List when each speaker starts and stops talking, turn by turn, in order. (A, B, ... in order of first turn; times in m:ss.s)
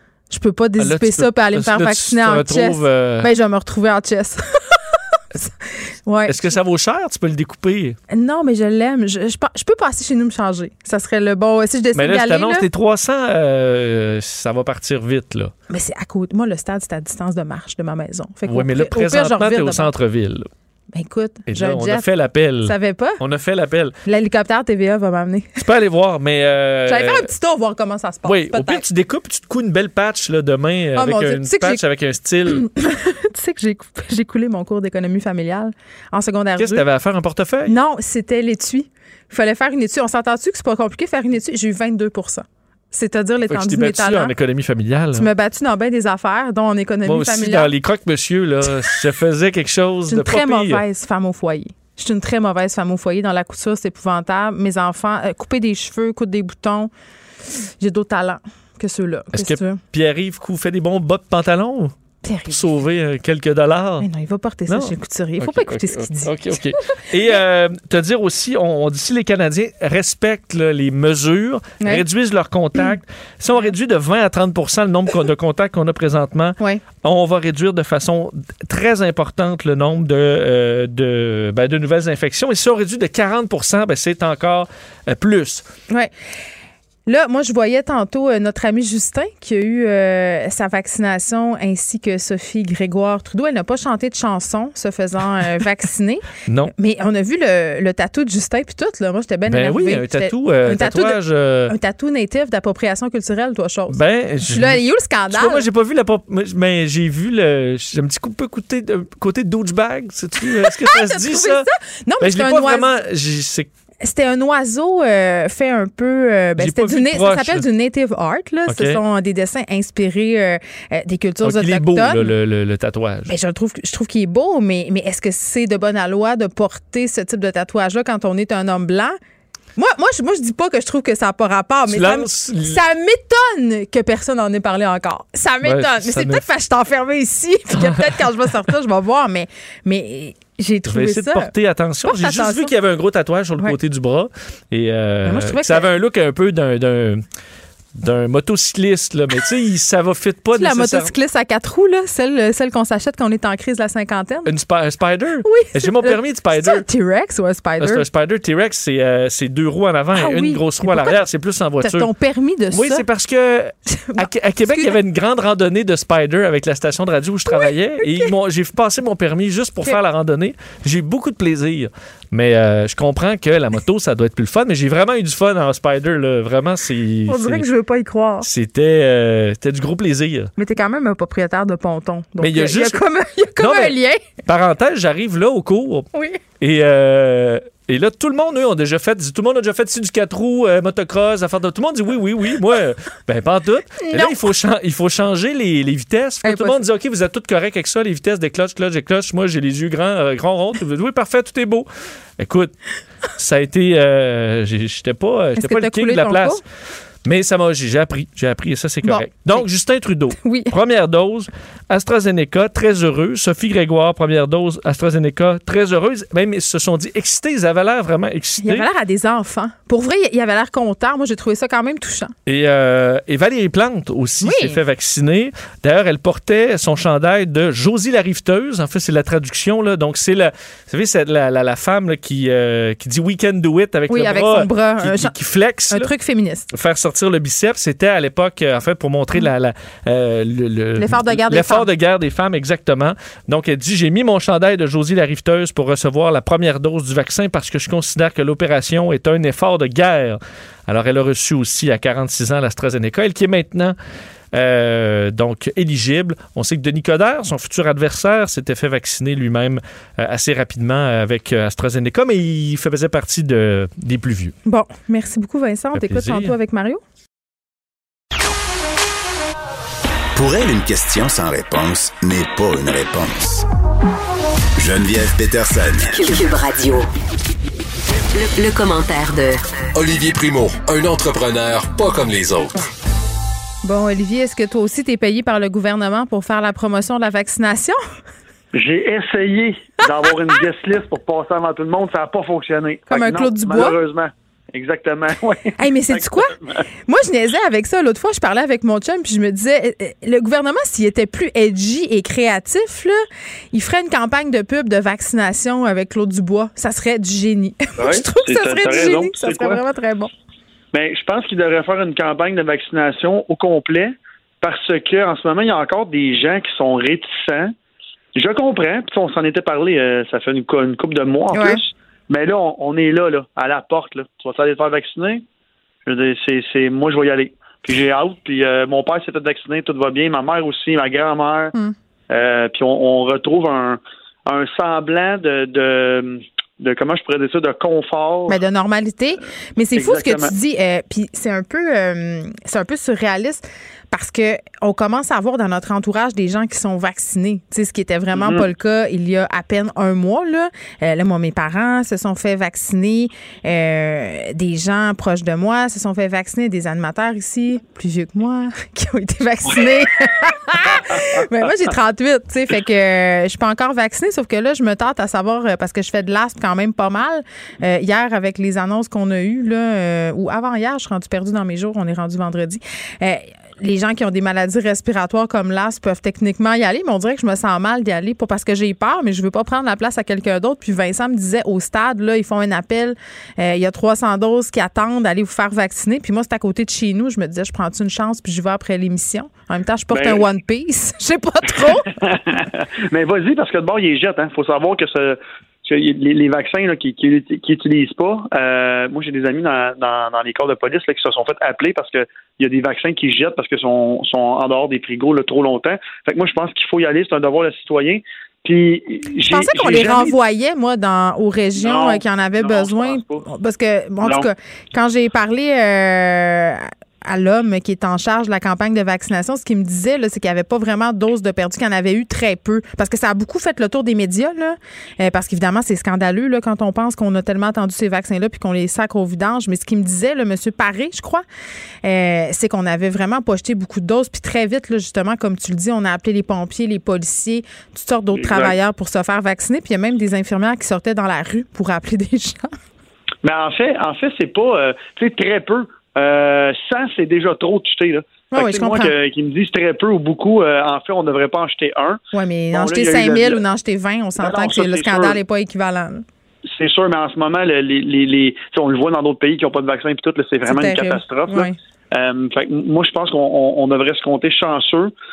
0:00.3-0:06.6 A
0:00.8-0:03.3 B
0:06.3-0:08.0 B
0:08.1-0:12.6 A
0:11.9-0:15.5 B
0:15.7-0:19.9 A
0:18.4-0:20.5 B
0:20.9-0:22.1 A
0:21.5-0:23.9 B
0:22.6-0:23.2 A
0:24.0-0:25.6 A
0:25.6-0:27.3 B
0:26.9-0:28.8 A
0:28.2-0:32.7 B
0:30.9-0:31.8 A
0:32.4-0:36.8 A
0:36.6-0:37.7 B
0:37.6-0:44.3 A
0:43.5-0:45.3 B
0:45.1-0:47.7 A
0:47.0-0:50.8 B
0:50.1-0:56.9 A
0:57.5-0:59.8 A
0:59.3-1:01.9 B
1:02.2-1:02.8 A
1:02.5-1:04.1 B
1:04.0-1:06.7 A
1:04.7-1:25.6 B
1:11.8-1:12.0 A
1:12.7-1:13.0 A
1:27.0-1:45.6 A
1:36.5-1:36.7 B
1:39.5-1:41.7 B
1:43.9-1:51.7 B
1:50.5-1:52.9 A
1:52.2-1:53.7 B
1:54.0-2:02.3 A
1:56.6-1:57.6 B
1:58.7-1:59.0 B
2:01.4-2:03.3 B
2:03.3-2:09.2 A
2:09.8-2:21.5 A
2:11.9-2:12.8 B
2:15.6-2:16.4 B
2:17.7-2:18.2 B
2:20.9-2:27.2 B
2:22.0-2:22.7 A
2:25.2-2:25.9 A
2:27.9-2:31.1 B
2:30.5-2:34.5 A
2:34.4-2:36.8 B
2:35.4-2:38.0 A
2:37.8-2:42.1 B
2:40.1-2:41.2 A
2:41.8-2:43.0 A
2:42.7-2:57.7 B
2:43.9-2:45.0 A
2:47.4-2:48.3 A
2:57.3-2:58.5 A
2:58.4-3:00.5 B
3:00.6-3:04.3 A
3:02.4-3:03.0 B
3:03.6-3:03.9 B
3:04.4-3:06.1 B
3:06.1-3:06.4 A
3:06.6-3:21.9 B
3:14.0-3:14.4 A
3:16.4-3:16.8 A
3:22.4-3:22.7 B
3:23.4-3:26.6 B
3:25.6-3:26.6 A
3:27.2-3:38.9 B
3:29.0-3:29.7 A
3:30.3-3:30.8 A
3:38.6-3:42.3 A
3:42.4-3:56.1 B
3:44.4-3:44.8 A
3:54.1-3:55.3 A
3:55.9-3:56.7 A
3:56.7-4:13.9 B
4:01.0-4:01.9 A
4:14.5-4:24.5 B
4:24.6-4:27.0 A
4:25.9-4:26.6 B
4:30.3-4:33.6 C
4:34.8-4:36.1 C
4:36.1-4:37.1 D
4:38.3-4:39.7 D
4:39.9-4:42.8 E
4:43.8-4:48.0 A
4:48.7-4:56.5 F
4:53.1-4:54.0 A
4:55.8-4:56.5 A
4:57.0-5:03.2 A
5:03.7-5:10.3 A
5:08.0-5:09.8 F
5:10.9-5:17.7 F
5:18.3-5:25.4 F
5:21.5-5:21.8 A
5:26.0-5:31.7 F
5:32.3-5:38.6 F
5:38.5-6:32.1 A
5:39.9-5:40.5 F
5:48.4-5:48.7 F
6:30.1-6:30.5 F
6:32.2-6:50.3 F
6:49.4-7:11.4 A
6:51.8-6:53.4 F
6:54.2-6:54.5 F
7:12.0-7:22.8 A
7:18.3-7:18.8 F
7:23.4-7:32.2 F
7:28.5-7:29.1 A
7:32.3-7:36.2 A
7:32.7-7:33.6 F
7:34.4-7:35.4 F
7:36.7-7:45.1 F
7:40.7-7:41.8 A